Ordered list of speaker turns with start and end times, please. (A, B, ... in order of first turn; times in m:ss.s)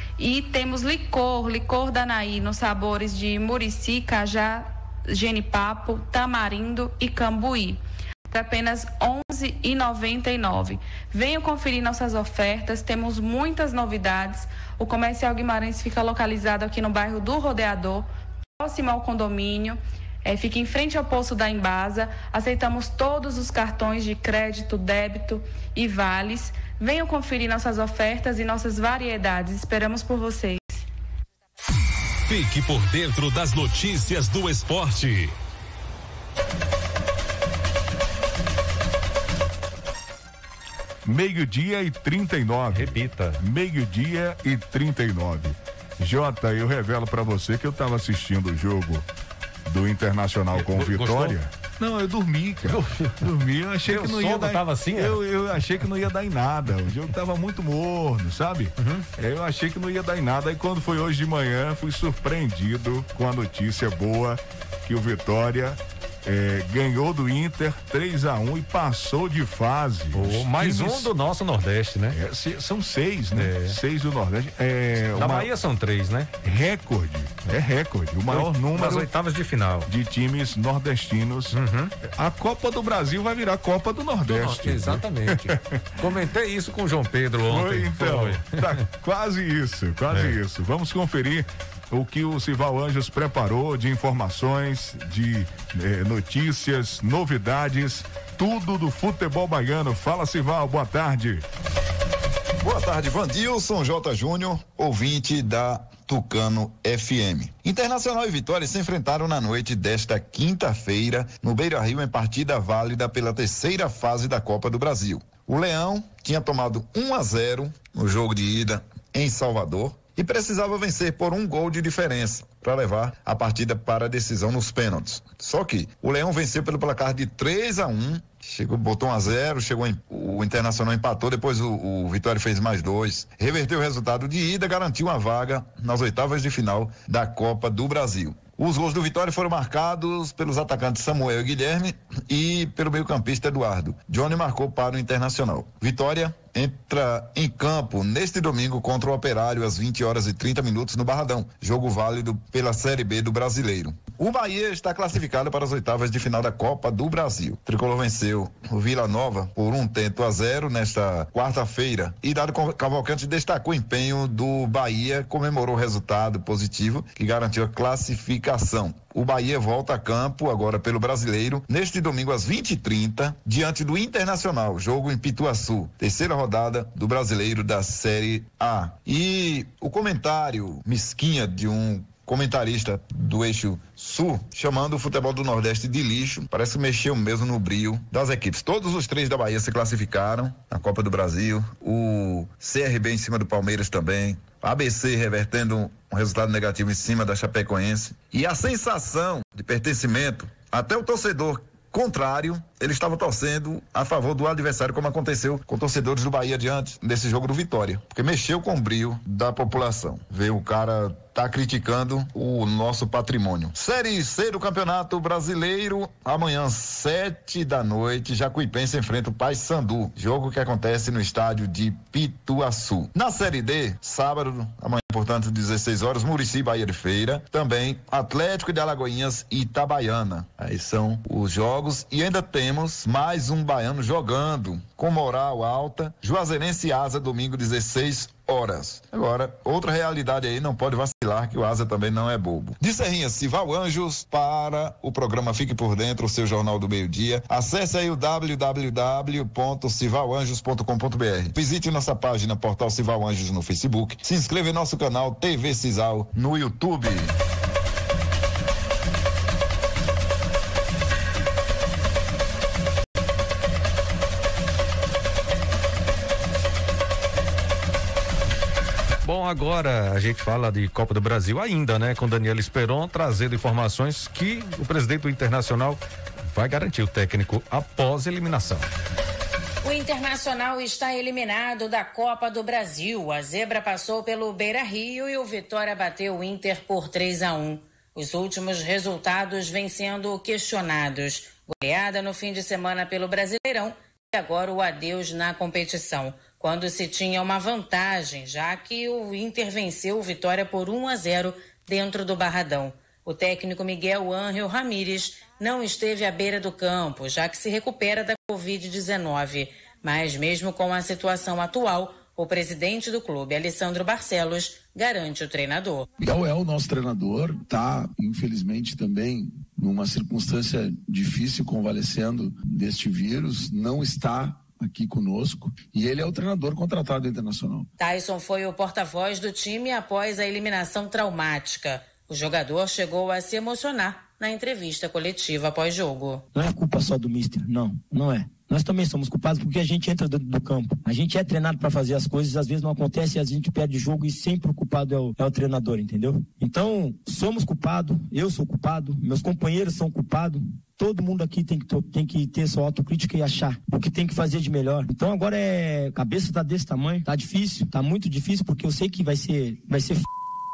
0:00.2-0:18.1 A
0:18.6-0:30.9 A
0:32.2-0:35.4 B
0:41.0-0:49.0 C
0:42.7-0:43.4 D
0:49.6-1:11.1 C
0:50.5-0:51.4 D
0:52.7-0:53.2 D
0:53.9-0:55.2 D
0:58.8-0:59.0 D
1:10.1-1:12.2 D
1:12.1-1:15.5 C
1:13.4-1:13.8 D
1:15.2-1:16.3 D
1:16.4-1:19.1 C
1:18.3-1:19.9 D
1:19.9-1:25.8 C
1:21.5-1:21.9 D
1:24.3-1:28.6 D
1:27.5-1:41.4 C
1:42.6-4:17.3 E
4:29.2-4:38.9 D
4:39.8-5:16.1 F
5:16.2-5:27.9 G
5:28.0-5:36.4 F
5:36.5-6:00.2 H